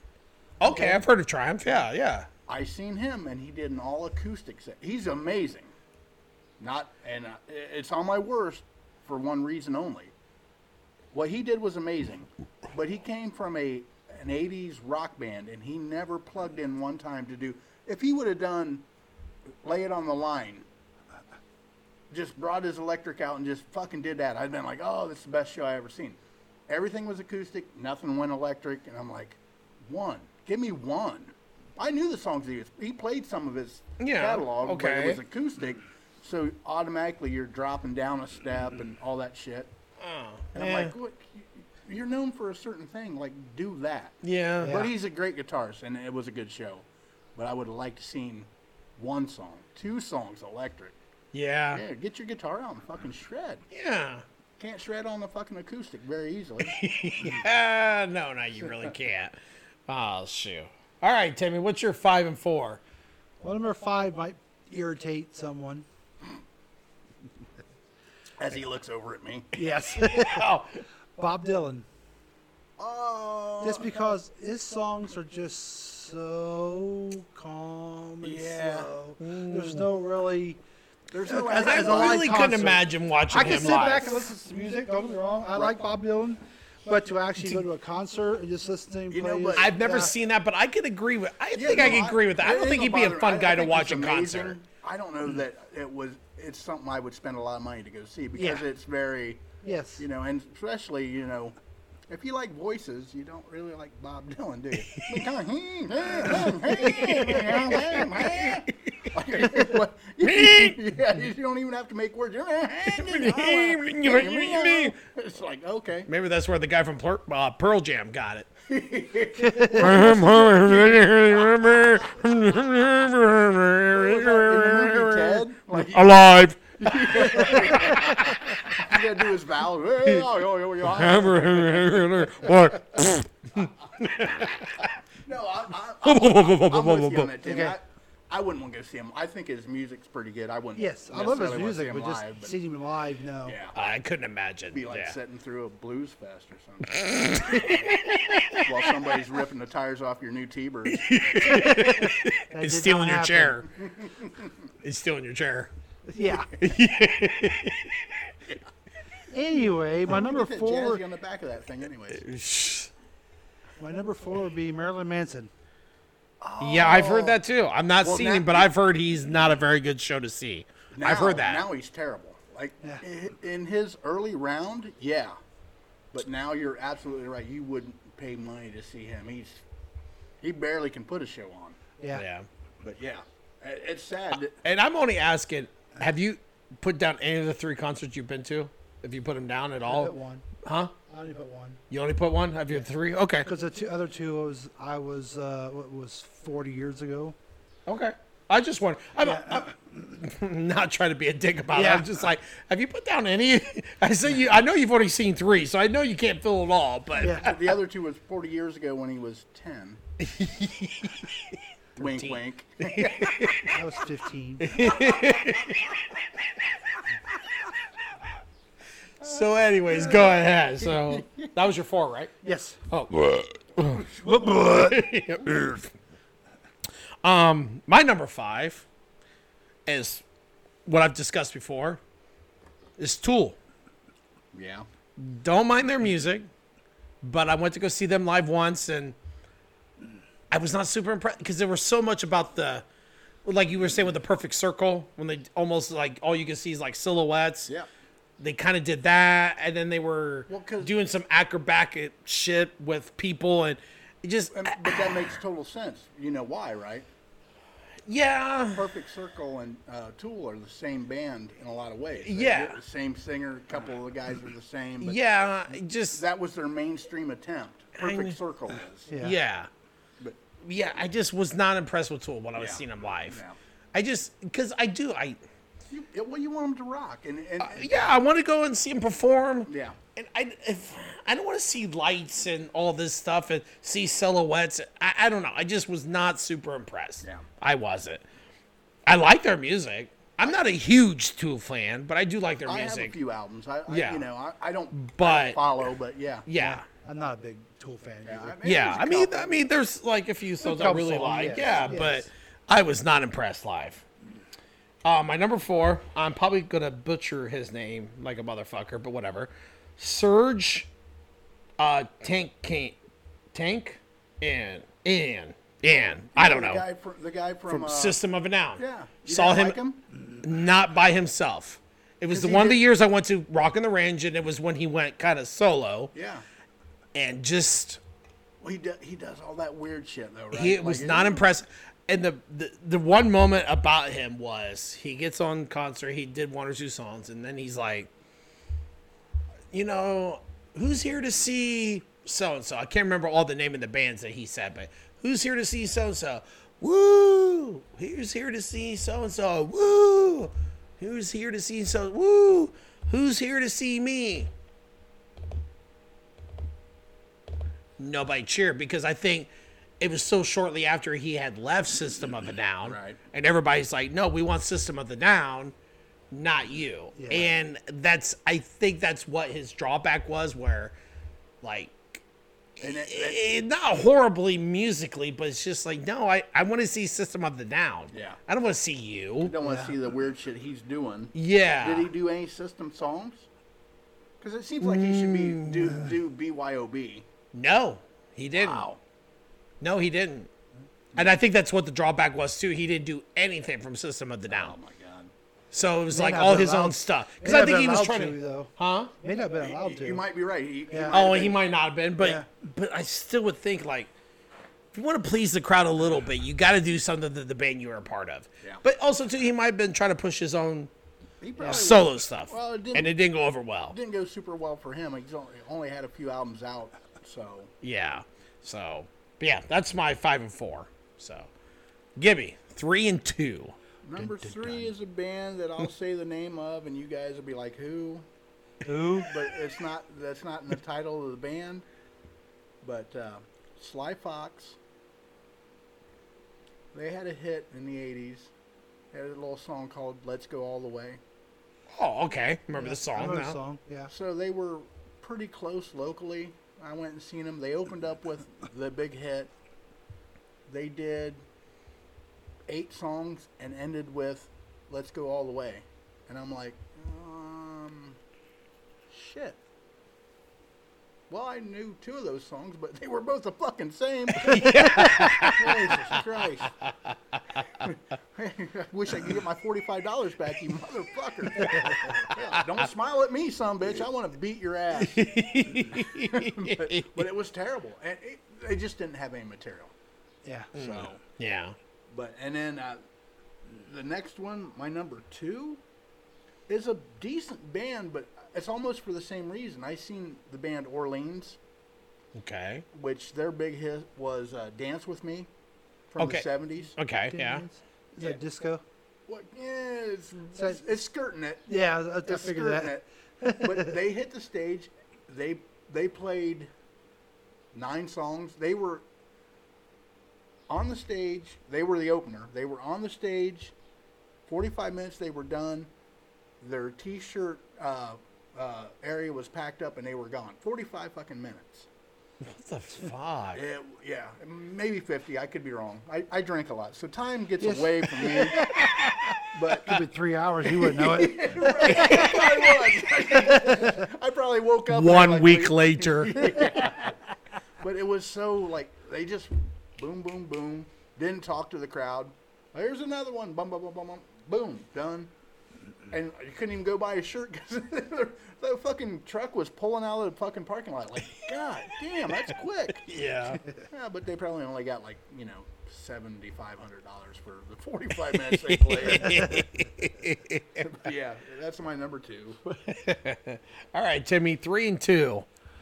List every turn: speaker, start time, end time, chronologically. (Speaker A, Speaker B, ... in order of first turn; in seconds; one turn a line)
Speaker A: 0.6-2.3
Speaker B: 0.6-1.0
Speaker C: 2.5-5.7
Speaker C: 6.6-10.1
Speaker C: 11.1-18.9
Speaker C: 19.6-20.6
Speaker C: 22.1-39.7
Speaker A: 34.0-35.2
Speaker A: 40.0-40.9
Speaker C: 40.5-50.9
Speaker A: 44.2-44.8
Speaker B: 44.6-44.9
Speaker A: 51.3-51.8
Speaker C: 51.7-53.6
Speaker A: 53.7-54.2
Speaker C: 54.6-57.3
Speaker A: 56.6-59.4
Speaker A: 59.9-62.8
Speaker B: 63.4-65.8
Speaker C: 68.4-69.5
Speaker B: 69.5-70.5
Speaker A: 70.1-70.8
Speaker B: 71.2-71.8
Speaker C: 72.8-73.9
Speaker B: 73.6-80.6
Speaker C: 78.2-78.9
Speaker A: 79.2-79.8
Speaker C: 81.1-82.8
Speaker B: 81.2-90.1
Speaker A: 81.6-84.1
Speaker C: 85.5-85.8
Speaker C: 89.1-89.8
Speaker A: 89.5-94.6
Speaker C: 91.5-101.5
Speaker B: 98.3-98.6
Speaker B: 99.6-100.0
Speaker C: 102.1-116.1
Speaker A: 104.8-105.2
Speaker A: 106.2-109.1
Speaker A: 110.2-110.8
Speaker A: 112.9-114.9
Speaker A: 116.1-118.5
Speaker C: 118.7-121.7
Speaker A: 119.7-128.4
Speaker C: 123.9-132.6
Speaker A: 130.9-134.9
Speaker C: 133.6-134.2
Speaker C: 135.2-142.6
Speaker A: 136.0-137.3
Speaker B: 137.4-137.8
Speaker B: 140.8-143.6
Speaker C: 143.4-143.8
Speaker A: 143.7-145.1
Speaker C: 144.7-151.2
Speaker A: 146.9-148.7
Speaker A: 150.9-153.7
Speaker B: 151.5-153.6
Speaker C: 153.8-154.4
Speaker A: 154.8-155.7
Speaker B: 156.1-156.5
Speaker A: 156.6-158.1
Speaker B: 159.3-161.0
Speaker C: 160.1-162.2
Speaker A: 162.1-162.9
Speaker B: 163.8-165.5
Speaker C: 166.4-167.4
Speaker A: 166.6-171.6
Speaker C: 168.0-168.7
Speaker C: 170.9-175.3
Speaker C: 176.1-179.6
Speaker C: 180.4-181.8
Speaker A: 182.1-182.5
Speaker C: 182.8-184.6
Speaker A: 184.6-190.9
Speaker B: 189.8-190.5
Speaker B: 191.1-191.8
Speaker A: 191.9-193.5
Speaker B: 193.4-197.3
Speaker A: 197.9-207.6
Speaker B: 199.2-200.1
Speaker B: 201.7-202.2
Speaker B: 207.2-207.5
Speaker C: 207.2-210.0
Speaker A: 210.2-213.8
Speaker C: 211.9-213.5
Speaker B: 213.7-214.8
Speaker A: 214.6-216.0
Speaker A: 219.2-222.3
Speaker B: 222.4-222.8
Speaker A: 222.9-225.9
Speaker B: 224.2-225.0
Speaker A: 227.2-228.8
Speaker A: 229.8-230.2
Speaker A: 230.8-232.0
Speaker A: 233.0-233.6
Speaker C: 234.5-234.9
Speaker A: 235.2-236.5
Speaker A: 237.2-239.2
Speaker A: 240.5-242.8
Speaker A: 243.4-247.7
Speaker A: 248.4-255.3
Speaker C: 250.5-250.9
Speaker C: 254.5-257.1
Speaker A: 258.1-258.9
Speaker C: 258.7-265.2
Speaker A: 262.2-262.8
Speaker A: 265.0-266.2
Speaker C: 266.1-269.1
Speaker A: 268.0-268.3
Speaker B: 269.1-269.4
Speaker A: 269.2-269.7
Speaker A: 270.6-273.4
Speaker C: 272.6-273.6
Speaker A: 273.9-275.4
Speaker C: 275.9-278.2
Speaker A: 277.6-288.2
Speaker C: 279.7-280.0
Speaker A: 289.1-293.1
Speaker C: 292.6-296.5
Speaker A: 293.9-294.2
Speaker A: 294.9-295.6
Speaker A: 296.5-296.8
Speaker B: 296.6-298.6
Speaker C: 298.2-299.6
Speaker A: 298.6-304.0
Speaker B: 300.6-302.2
Speaker A: 305.0-310.9
Speaker A: 311.8-313.0
Speaker A: 313.5-316.8
Speaker C: 316.3-318.2
Speaker A: 317.7-319.8
Speaker C: 318.8-320.0
Speaker A: 320.4-326.1
Speaker C: 322.3-322.8
Speaker C: 326.1-326.4
Speaker A: 327.1-328.0
Speaker C: 328.6-331.5
Speaker A: 330.5-338.1
Speaker A: 339.7-354.5
Speaker A: 358.0-359.5
Speaker A: 360.0-365.7
Speaker C: 362.8-363.2
Speaker A: 366.3-370.9
Speaker B: 367.2-367.5
Speaker A: 371.6-372.2
Speaker C: 372.8-373.4
Speaker A: 372.8-379.5
Speaker C: 378.1-378.4
Speaker C: 379.4-383.5
Speaker B: 379.6-379.9
Speaker A: 381.3-382.1
Speaker C: 384.4-387.2
Speaker A: 384.8-386.0
Speaker A: 387.5-388.9
Speaker C: 388.5-389.0
Speaker A: 389.8-390.5
Speaker A: 391.1-394.7
Speaker C: 394.5-395.3
Speaker A: 395.7-399.1
Speaker B: 396.1-400.2
Speaker C: 399.6-401.6
Speaker B: 400.9-401.1
Speaker A: 401.1-404.1
Speaker B: 402.2-402.4
Speaker A: 404.9-410.9
Speaker C: 411.4-413.1
Speaker A: 411.6-413.9
Speaker C: 413.9-417.7
Speaker A: 417.8-421.5
Speaker A: 422.1-424.8
Speaker C: 424.0-428.2
Speaker B: 428.8-429.3
Speaker C: 429.2-431.9
Speaker C: 432.8-434.8
Speaker C: 436.9-438.5
Speaker C: 439.1-441.2
Speaker A: 441.9-443.6
Speaker B: 442.7-444.1
Speaker C: 444.1-449.5
Speaker C: 450.7-451.4
Speaker C: 452.7-458.2
Speaker C: 459.1-459.6
Speaker C: 461.3-466.7
Speaker A: 464.4-465.7
Speaker B: 464.6-465.3
Speaker A: 466.8-467.9
Speaker C: 467.8-479.9
Speaker A: 472.3-472.6
Speaker A: 474.9-477.2
Speaker B: 480.4-480.7
Speaker C: 480.7-481.2
Speaker A: 480.8-481.8
Speaker C: 482.1-483.0
Speaker C: 483.8-485.8
Speaker C: 486.7-491.6
Speaker A: 492.3-492.8
Speaker C: 492.9-495.5
Speaker C: 496.1-496.9
Speaker A: 496.2-497.6
Speaker B: 497.3-498.8
Speaker C: 499.3-503.0
Speaker B: 500.5-500.9
Speaker B: 501.7-503.9
Speaker C: 503.6-506.7
Speaker C: 507.7-509.0
Speaker C: 510.7-513.7
Speaker C: 514.5-515.9
Speaker C: 516.6-521.9
Speaker A: 522.4-523.6
Speaker C: 523.5-528.7
Speaker B: 527.6-532.3
Speaker C: 529.5-530.0
Speaker C: 530.7-537.2
Speaker A: 531.9-532.6
Speaker B: 533.3-534.0
Speaker A: 534.9-536.6
Speaker C: 537.8-545.3
Speaker C: 546.1-553.2
Speaker A: 553.0-553.6
Speaker C: 553.8-559.6
Speaker A: 558.3-560.9
Speaker C: 560.8-562.6
Speaker A: 562.7-565.5